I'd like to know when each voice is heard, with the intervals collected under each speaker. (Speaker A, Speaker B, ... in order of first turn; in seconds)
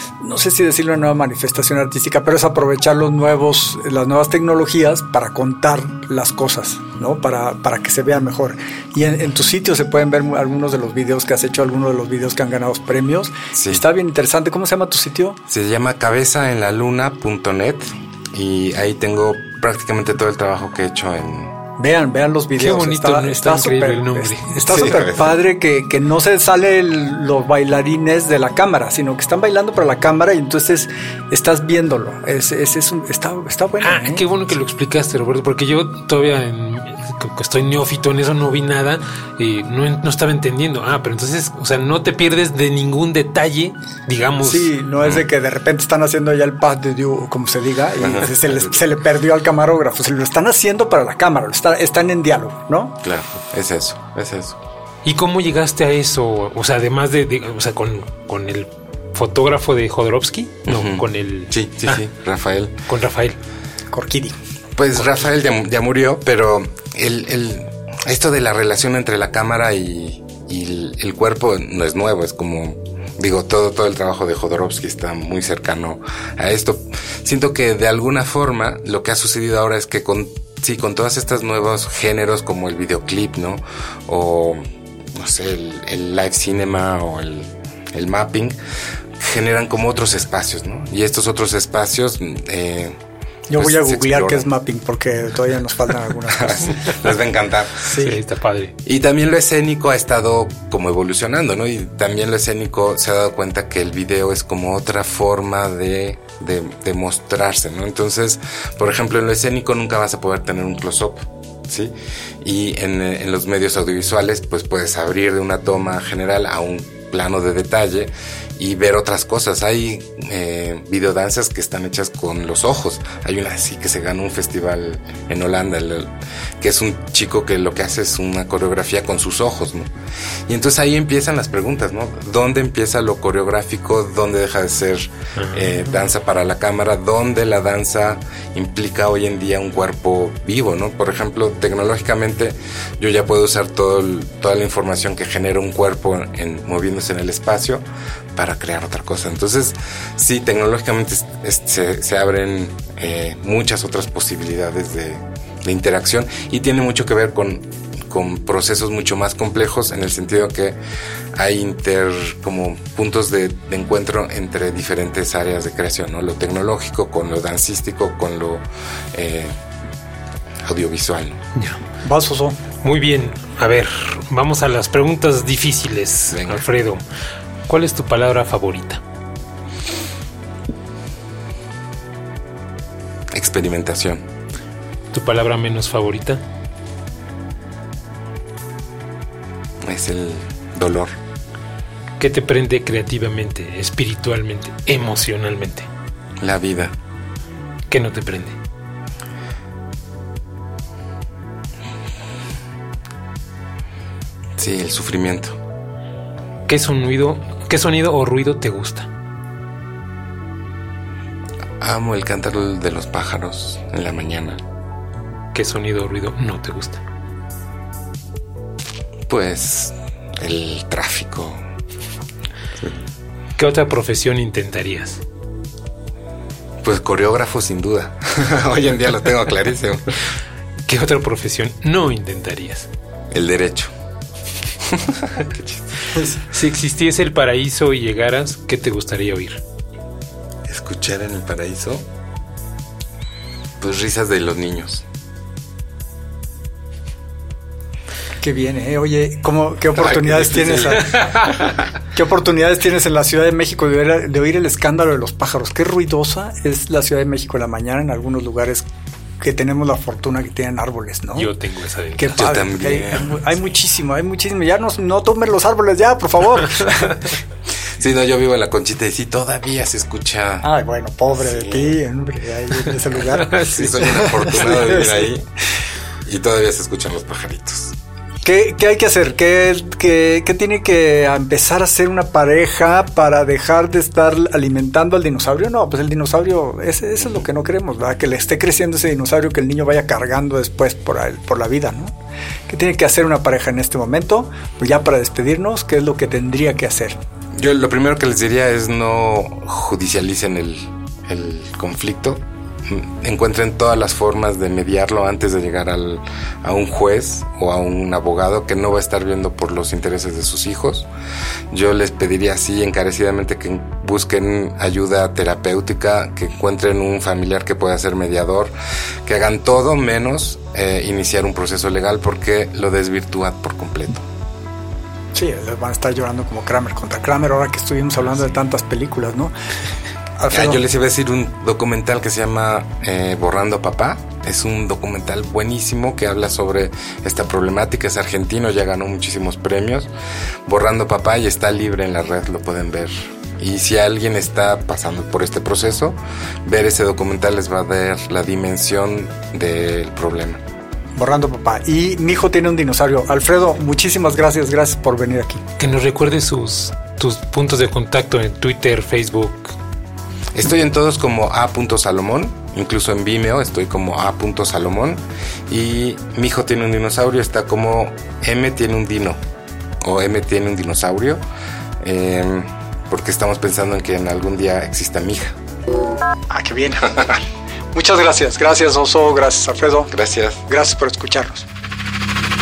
Speaker A: 0.2-15.4, 21.8-34.3, 44.4-53.0, 63.9-64.4, 93.5-97.0, 97.8-98.2, 172.0-172.6, 248.4-251.3, 252.1-258.9, 259.4-261.5, 262.1-267.3, 270.6-275.3, 278.4-292.1, 292.7-297.2, 325.3-329.5, 330.4-330.8, 351.2-355.6, 376.5-377.4, 377.9-380.1, 380.7-381.7
Speaker B: 13.5-13.8, 15.5-21.6, 24.7-25.4, 48.0-48.8, 53.0-54.6, 60.7-62.8, 64.8-84.6, 85.1-88.6, 89.2-93.0, 93.5-94.5, 96.3-97.9, 98.8-129.9, 130.5-160.8, 161.3-169.6, 170.6-171.4, 176.3-176.6, 183.3-184.2, 189.8-191.1, 196.4-196.9, 204.6-205.6, 211.8-214.6, 219.3-221.6, 222.8-223.0, 226.8-230.2, 233.3-233.9, 234.8-235.8, 240.7-242.0, 243.8-245.0, 249.9-251.8, 262.3-263.5, 267.9-270.7, 271.4-271.9, 273.5-275.5, 276.2-277.9, 297.6-311.1, 311.7-318.7, 319.2-324.2, 330.5-340.1, 340.6-350.6, 360.5-369.4, 370.0-371.4, 372.0-375.6, 380.1-380.6
Speaker C: 22.6-24.9, 33.8-44.7, 55.0-62.0, 62.9-63.4, 98.0-98.7, 135.3-135.8, 171.5-171.8, 172.8-177.0, 177.7-179.0, 185.1-186.4, 192.2-195.9, 197.9-198.6, 206.7-209.1, 215.5-217.0, 223.6-225.2, 230.8-232.9, 236.5-239.6, 251.1-251.5, 261.4-262.4, 355.8-359.7